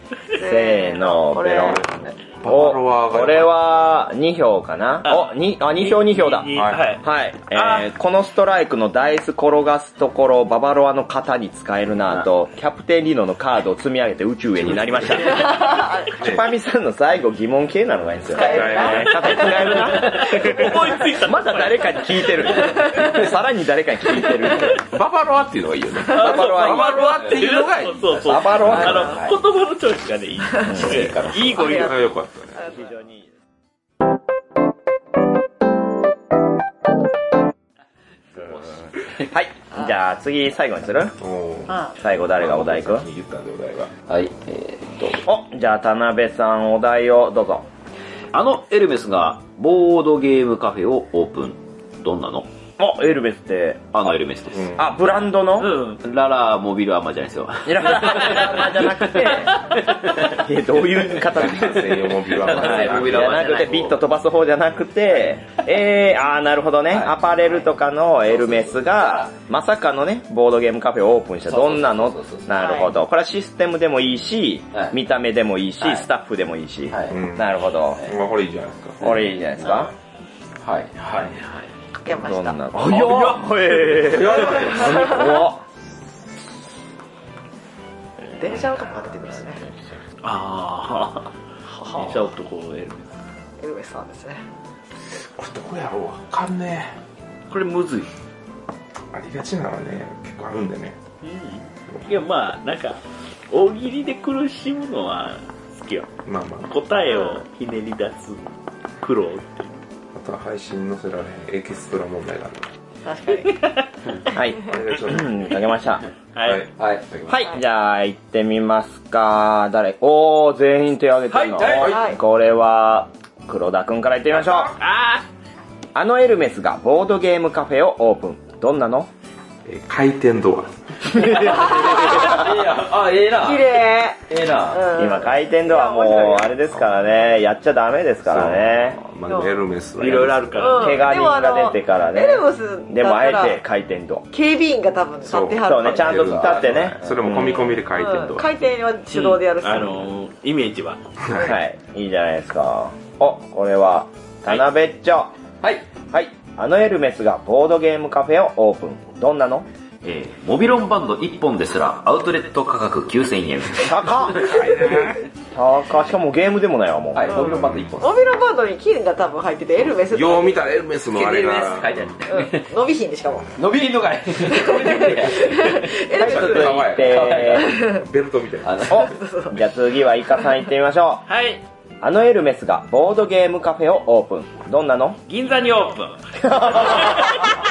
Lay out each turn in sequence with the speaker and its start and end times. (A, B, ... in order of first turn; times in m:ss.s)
0:00.3-0:01.8 A
0:00.3-0:01.8 B
0:01.8-0:02.2 C
0:02.4-0:03.6 D
0:02.4-0:24.8 B
0:05.0-0:07.9 E
0:06.5-0:06.9 D
0:14.6-0:15.6 D
0:15.3-0:16.1 A
0:16.1-0:16.5 D
0:18.3-0:19.8 A
0:18.4-0:19.5 D
0:19.9-0:22.4 E
0:24.4-0:28.3 D
0:26.1-0:32.0 E
0:26.1-0:27.0 B
0:28.2-0:29.3 B
0:28.6-0:29.4 C
0:30.6-0:31.8 C
0:31.6-0:31.9 A
0:31.6-0:32.6 D
0:32.7-0:33.2 B
0:39.0-0:39.3 C
0:39.3-0:41.2 B
0:41.2-0:43.9 D
0:41.9-0:43.0 B
0:44.0-0:45.2 C
0:45.2-0:47.6 B
0:48.3-0:52.5 C
0:52.8-0:54.1 B
0:53.9-0:54.8 C
0:54.5-0:54.9 D
0:54.7-0:55.8 B
0:55.6-0:56.0 E
0:56.0-1:00.4 C
0:57.6-1:18.0 B
1:01.2-1:03.9 D
1:02.3-1:03.9 C
1:06.9-1:07.2 C
1:08.3-1:09.3 C
1:11.5-1:12.5 C
1:12.6-1:12.9 A
1:16.9-1:17.2 C
1:17.1-1:19.1 D
1:19.0-1:19.9 B
1:19.0-1:19.9 C
1:20.6-1:21.7 C
1:22.0-1:23.2 A
1:22.1-1:25.6 B
1:22.9-1:23.6 E
1:24.0-1:25.2 D
1:24.3-1:25.4 A
1:28.4-1:29.6 A
1:30.2-1:31.3 E
1:31.7-1:32.1 A
1:31.8-1:33.1 E
1:33.6-1:34.4 A
1:35.1-1:37.0 D
1:37.5-1:38.0 E
1:37.8-1:38.0 C
1:39.1-1:41.0 D
1:41.2-1:46.1 E
1:46.2-1:46.7 D
1:46.6-1:48.4 E
1:49.0-1:49.7 E
1:50.1-1:52.7 D
1:53.0-1:53.6 A
1:53.4-1:53.8 E
1:54.3-1:56.0 B
1:54.5-1:55.5 D
1:56.3-1:56.6 E
1:56.4-1:56.7 D
1:56.8-1:57.4 C
1:57.3-2:04.7 B
2:01.3-2:02.0 E
2:01.6-2:01.9 C
2:01.8-2:02.2 A
2:04.7-2:05.2 E
2:05.9-2:09.1 B
2:09.6-2:11.5 D
2:11.1-2:15.0 C
2:11.3-2:12.3 B
2:11.8-2:12.3 A
2:13.3-2:16.5 A
2:14.9-2:19.0 B
2:18.2-2:20.5 D
2:19.3-2:19.6 A
2:20.0-2:21.1 E
2:20.6-2:23.6 A
2:20.7-2:24.3 B
2:24.3-2:30.0 A
2:25.2-2:28.5 D
2:25.6-2:27.7 B
2:29.1-2:31.0 E
2:31.2-2:31.5 D
2:31.4-2:35.3 B
2:35.6-2:35.9 C
2:36.1-2:39.6 B
2:40.0-2:44.9 C
2:43.8-2:47.4 B
2:44.4-2:45.2 D
2:47.1-2:48.1 C
2:47.3-2:50.6 A
2:47.3-2:48.0 D
2:50.1-2:52.2 D
2:51.1-2:52.7 C
2:52.3-2:53.6 A
2:53.6-2:57.8 C
2:54.5-2:58.0 A
2:56.2-2:57.7 B
2:56.2-2:58.9 D
2:58.6-2:59.1 C
2:58.9-3:01.2 B
2:59.0-2:59.6 A
3:01.3-3:01.6 E
3:02.0-3:05.2 B
3:05.3-3:06.2 E
3:06.4-3:07.3 B
3:06.8-3:07.5 E